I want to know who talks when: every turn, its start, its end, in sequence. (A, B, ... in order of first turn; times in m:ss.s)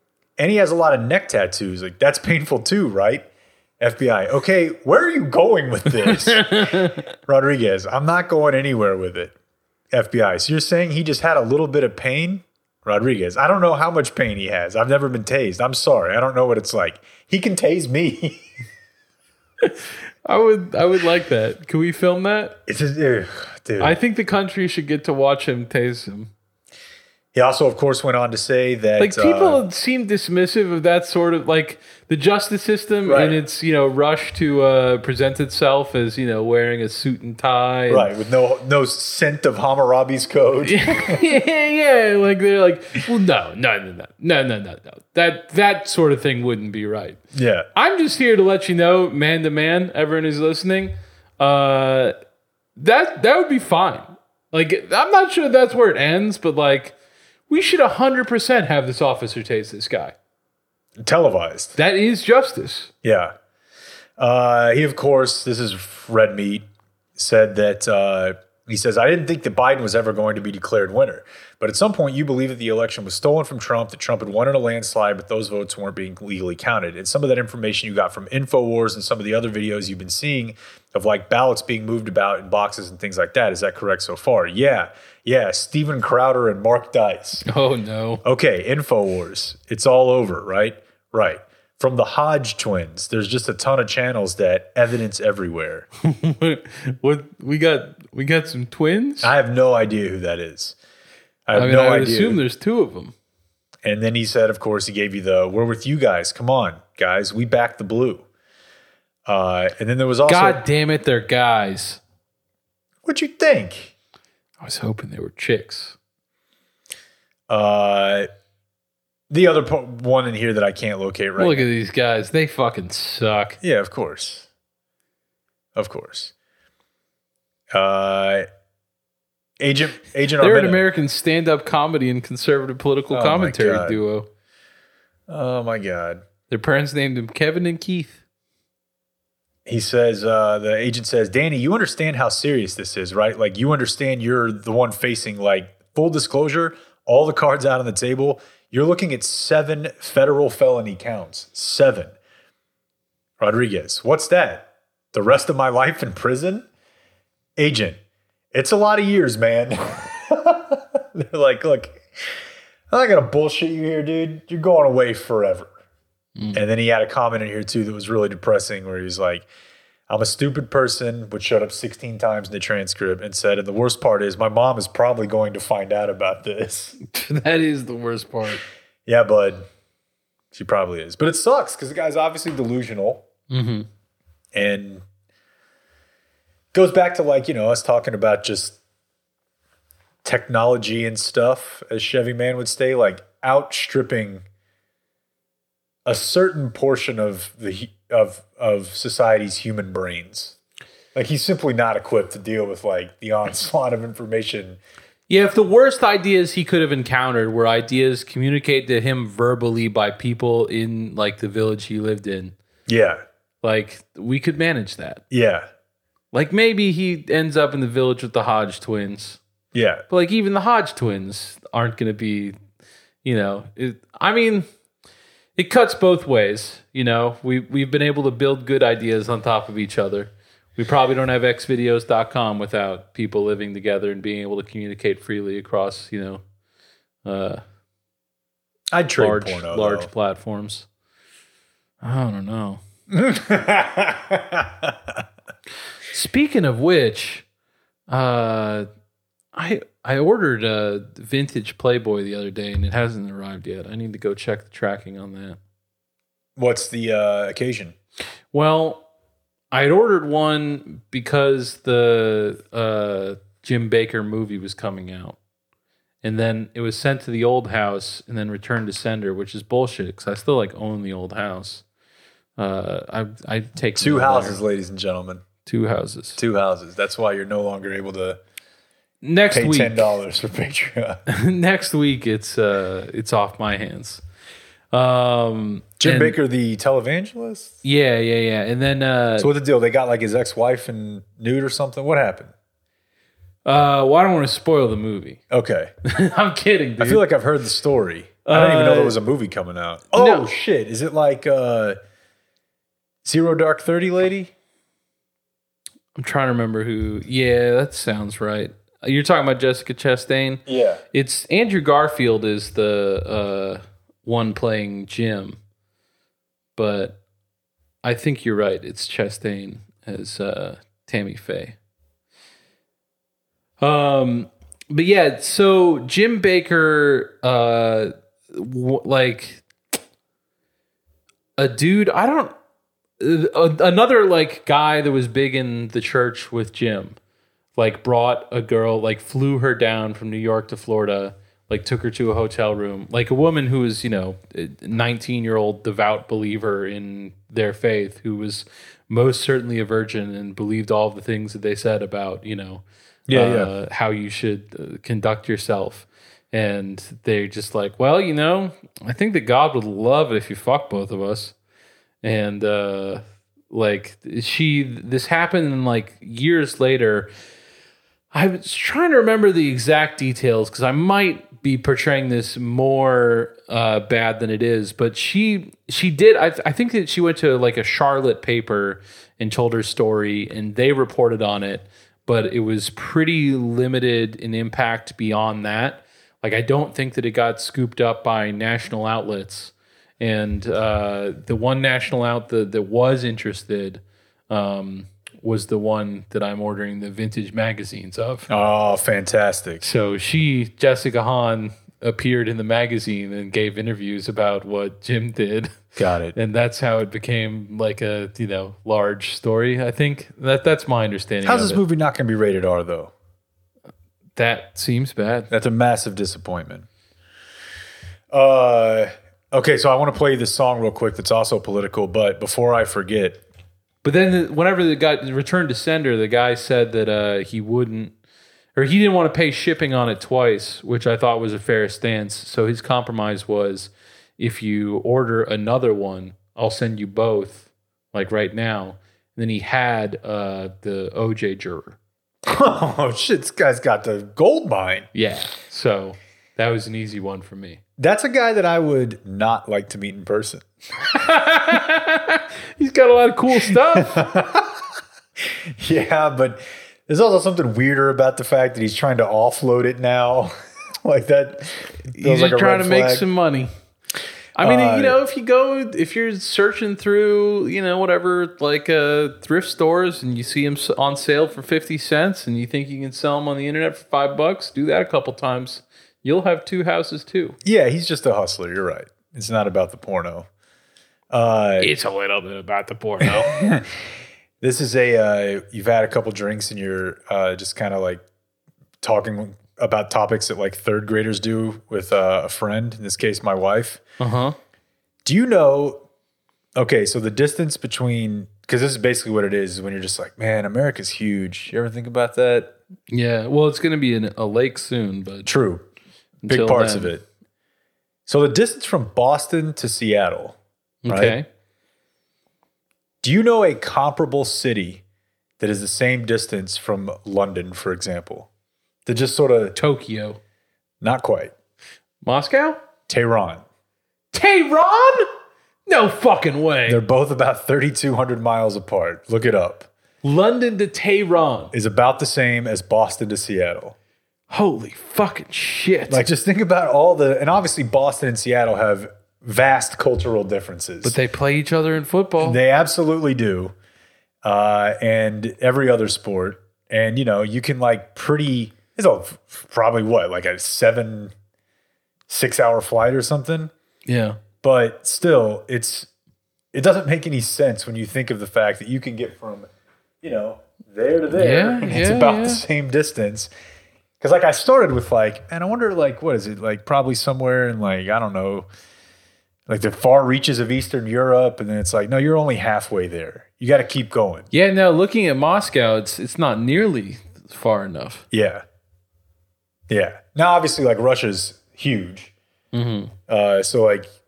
0:00.4-0:03.2 A
0:03.8-0:09.3 A
0:06.0-0:07.0 B
0:09.9-0:18.4 A
0:19.6-0:22.6 B
0:22.7-0:24.0 A
0:23.8-0:26.3 B
0:27.3-0:29.6 A
0:29.0-0:38.1 B
0:33.0-0:33.4 A
0:37.9-0:41.2 A
0:40.6-0:47.2 B
0:47.3-0:47.7 A
0:47.7-0:52.2 B
0:52.8-0:57.0 B
0:57.5-1:00.1 B
1:01.0-1:01.8 A
1:01.8-1:02.9 B
1:03.0-1:03.3 A
1:04.2-1:27.4 A
1:27.4-1:28.2 B
1:28.2-1:35.9 A
1:36.0-1:39.3 B
1:39.2-1:40.8 A
1:41.4-1:42.4 A
1:41.5-1:43.1 B
1:43.8-1:48.2 A
1:49.2-1:50.6 A
1:50.3-1:52.0 B
1:53.0-1:53.9 A
1:54.6-1:56.0 B
1:57.5-1:58.3 A
1:59.3-2:01.7 A
2:01.4-2:03.6 B
2:03.6-2:04.5 A
2:05.8-2:06.3 A
2:07.7-2:08.5 A
2:09.6-2:10.8 A
2:10.4-2:14.3 B
2:13.1-2:14.0 A
2:15.3-2:16.2 A
2:16.5-2:18.2 B
2:19.6-2:32.1 A
2:33.4-2:36.6 A
2:37.6-2:38.0 A
2:38.5-2:42.4 A
2:42.9-2:45.7 A
2:46.4-2:46.6 B
2:46.5-2:49.4 A
2:50.1-2:57.0 A
2:57.0-2:58.6 B
2:59.0-2:59.7 A
3:00.5-3:03.2 A
3:03.5-3:03.9 B
3:04.5-3:05.0 A
3:06.7-3:08.8 A
3:10.2-3:14.4 A
3:16.0-3:20.6 A
3:21.1-3:24.8 A
3:25.3-3:32.5 B
3:32.9-3:33.2 A
3:33.6-3:35.2 B
3:35.3-3:35.6 A
3:36.3-3:39.4 B
3:39.7-3:40.0 A
3:40.1-3:42.6 B
3:43.2-3:44.6 B
3:45.6-3:56.4 B
3:57.2-3:57.6 B
3:58.9-4:00.1 A
3:59.2-4:00.9 B
4:02.0-4:02.8 B
4:03.1-4:05.2 A
4:06.1-4:07.4 B
4:08.1-4:08.9 B
4:09.5-4:15.6 B
4:16.6-4:17.9 A
4:18.5-4:19.0 B
4:19.7-4:25.4 B
4:26.2-4:31.8 B
4:32.6-4:34.6 B
4:34.0-4:35.4 A
4:35.6-4:36.4 B
4:36.4-4:38.4 A
4:39.2-4:40.1 B
4:39.5-4:41.2 A
4:41.3-4:44.2 B
4:44.9-4:46.4 B
4:46.0-4:47.8 A
4:47.8-4:49.5 B
4:49.4-4:52.5 A
4:53.6-4:55.4 B
4:55.5-4:55.9 A
4:56.0-4:57.2 B
4:57.0-5:02.0 A
4:58.4-4:59.2 B
5:00.1-5:00.5 B
5:03.2-5:04.5 A
5:06.2-5:15.6 B
5:10.6-5:11.0 A
5:16.8-5:17.2 B
5:18.0-5:21.8 B
5:23.8-5:29.6 B
5:31.6-5:32.5 B
5:33.2-5:37.2 B
5:37.8-6:01.5 B
5:53.3-5:53.7 A
6:02.2-6:07.3 B
6:08.3-6:38.5 B
6:38.5-6:39.8 A
6:39.8-6:45.8 B
6:46.0-6:46.4 A
6:46.3-6:51.8 B
6:51.4-6:53.1 A
6:54.4-6:55.5 B
6:55.5-6:56.9 A
6:58.3-7:03.4 A
7:04.0-7:08.1 B
7:08.8-7:22.0 B
7:22.4-7:25.1 A
7:25.1-7:27.8 B
7:28.0-7:30.6 A
7:31.1-7:34.2 B
7:33.7-7:34.8 A
7:35.8-7:43.3 A
7:42.1-7:43.7 B
7:44.6-7:57.6 B
7:44.6-7:45.2 A
7:57.6-8:00.5 A
8:01.3-8:01.9 A
8:01.8-8:03.7 B
8:03.2-8:04.0 A
8:04.6-8:08.2 A
8:09.0-8:14.0 A
8:14.2-8:14.6 B
8:15.2-8:16.0 A
8:16.8-8:22.7 A
8:23.1-8:25.5 B
8:25.4-8:25.9 A
8:26.4-8:27.1 B
8:26.4-8:27.2 A
8:28.2-8:31.4 A
8:31.0-8:31.4 B
8:33.2-8:35.0 A
8:35.6-8:38.5 A
8:39.0-8:39.8 A
8:39.8-8:40.4 B
8:41.0-8:41.5 A
8:42.2-8:42.8 B
8:43.1-8:43.6 A
8:44.3-8:45.3 B
8:45.9-8:47.0 B
8:46.8-8:49.9 A
8:50.2-8:51.7 B
8:51.7-8:54.0 A
8:54.5-8:56.2 B
8:56.1-9:01.2 A
9:01.0-9:02.6 B
9:02.4-9:03.7 A
9:04.4-9:11.3 A
9:12.3-9:13.7 A
9:14.0-9:14.4 B
9:14.6-9:16.1 A
9:16.7-9:19.7 A
9:20.2-9:23.5 A
9:21.3-9:22.6 B
9:24.2-9:28.7 A
9:29.7-9:34.5 A
9:34.5-9:38.2 B
9:38.3-9:38.6 A
9:39.9-9:42.3 A
9:42.7-9:43.1 B
9:43.3-9:44.1 A